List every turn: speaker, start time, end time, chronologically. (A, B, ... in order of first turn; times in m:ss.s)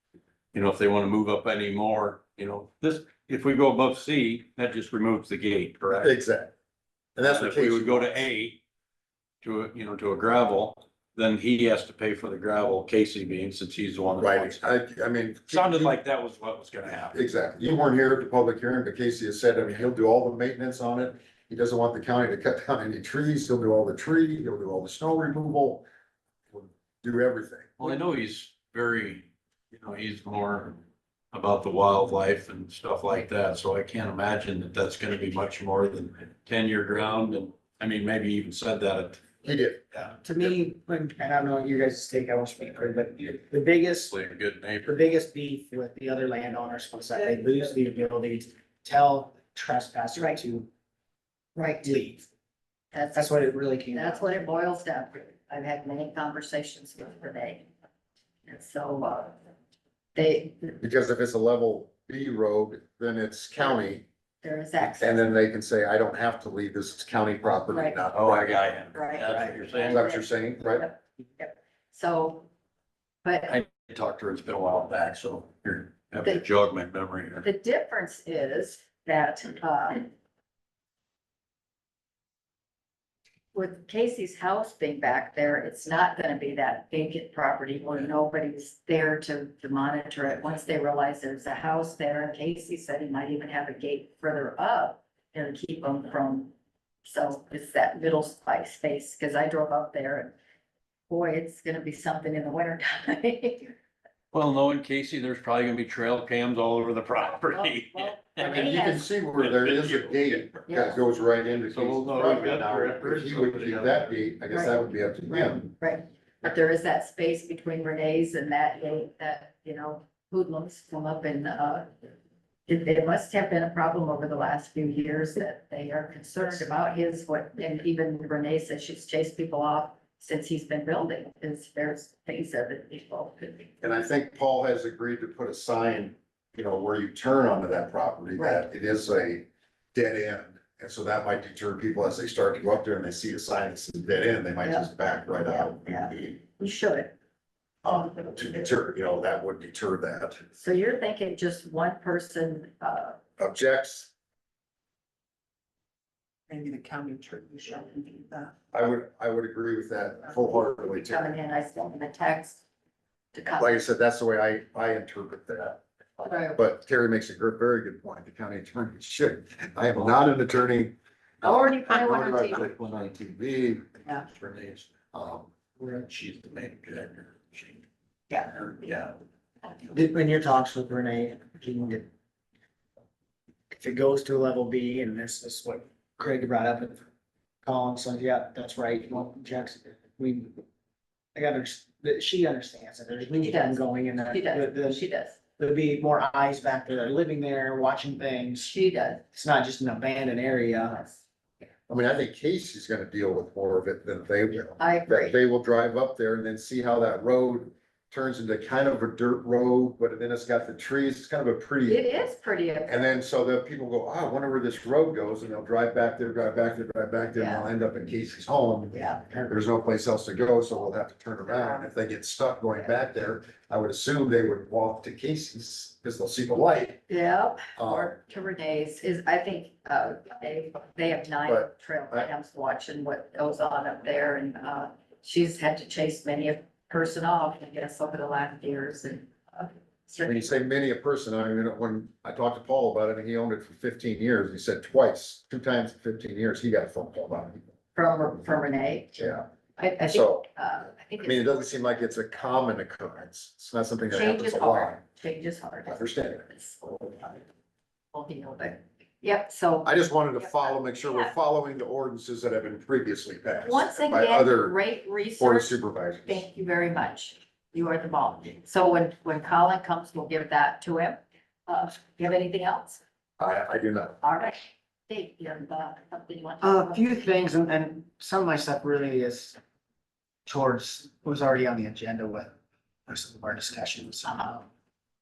0:00.5-0:06.1 A
0:05.9-0:06.5 B
0:07.2-0:08.3 B
0:07.2-0:08.6 A
0:09.4-0:14.6 A
0:14.2-0:16.0 B
0:15.5-0:17.2 A
0:17.1-0:25.8 B
0:26.5-0:27.8 B
0:27.8-0:39.3 A
0:39.4-0:39.8 B
0:40.0-0:40.5 A
0:40.2-0:44.1 C
0:44.0-0:44.9 A
0:44.8-0:50.7 C
0:51.6-0:52.0 D
0:51.8-0:52.3 C
0:52.9-0:57.7 D
0:53.1-0:54.3 C
0:58.4-0:59.3 D
1:00.1-1:00.8 D
1:00.8-1:04.0 B
1:03.6-1:03.8 D
1:04.4-1:05.3 D
1:05.0-1:08.8 B
1:07.7-1:08.1 D
1:08.1-1:10.1 A
1:08.9-1:12.5 D
1:09.8-1:10.9 B
1:13.2-1:13.6 D
1:13.5-1:17.5 A
1:17.4-1:20.1 D
1:23.5-1:36.5 D
1:37.0-1:40.3 D
1:41.1-1:43.7 D
1:44.3-1:50.5 A
1:48.2-1:49.1 D
1:48.4-1:55.7 B
1:50.7-1:51.0 D
1:51.7-1:54.2 A
1:54.5-1:54.8 D
1:55.5-2:01.9 D
2:02.7-2:13.7 D
2:13.8-2:26.4 B
2:18.4-2:18.6 D
2:24.6-2:24.9 D
2:25.5-2:27.1 D
2:27.8-2:30.4 B
2:30.5-2:33.2 D
2:33.4-2:34.1 B
2:36.5-2:38.5 E
2:38.7-2:41.3 B
2:40.4-2:42.6 D
2:43.3-2:43.8 D
2:43.6-2:53.8 B
2:46.2-2:46.6 D
2:51.4-2:52.7 D
2:54.2-2:54.9 A
2:55.1-2:55.5 B
2:55.8-2:57.8 A
2:58.5-2:59.2 A
2:59.9-3:02.1 C
3:03.7-3:07.0 C
3:07.6-3:10.6 C
3:11.3-3:15.0 C
3:13.4-3:15.4 D
3:15.6-3:18.7 C
3:18.6-3:19.2 D
3:19.3-3:21.0 C
3:20.9-3:21.2 D
3:21.9-3:32.2 B
3:24.8-3:25.4 D
3:31.9-3:33.2 D
3:32.8-3:47.0 B
3:37.4-3:37.7 D
3:38.9-3:39.5 D
3:41.4-3:41.9 D
3:47.1-4:00.5 D
3:47.8-3:48.1 B
3:51.4-3:52.3 B
4:00.2-4:07.7 B
4:07.9-4:09.2 D
4:09.2-4:09.4 B
4:09.8-4:11.9 D
4:10.1-4:10.4 B
4:11.2-4:15.0 B
4:14.1-4:16.8 D
4:15.8-4:17.4 B
4:18.1-4:21.3 D
4:19.8-4:24.7 B
4:23.6-4:33.0 D
4:25.4-4:26.4 B
4:33.4-4:34.2 B
4:34.2-4:37.2 D
4:36.6-4:39.6 C
4:40.4-4:42.5 C
4:43.1-4:44.7 C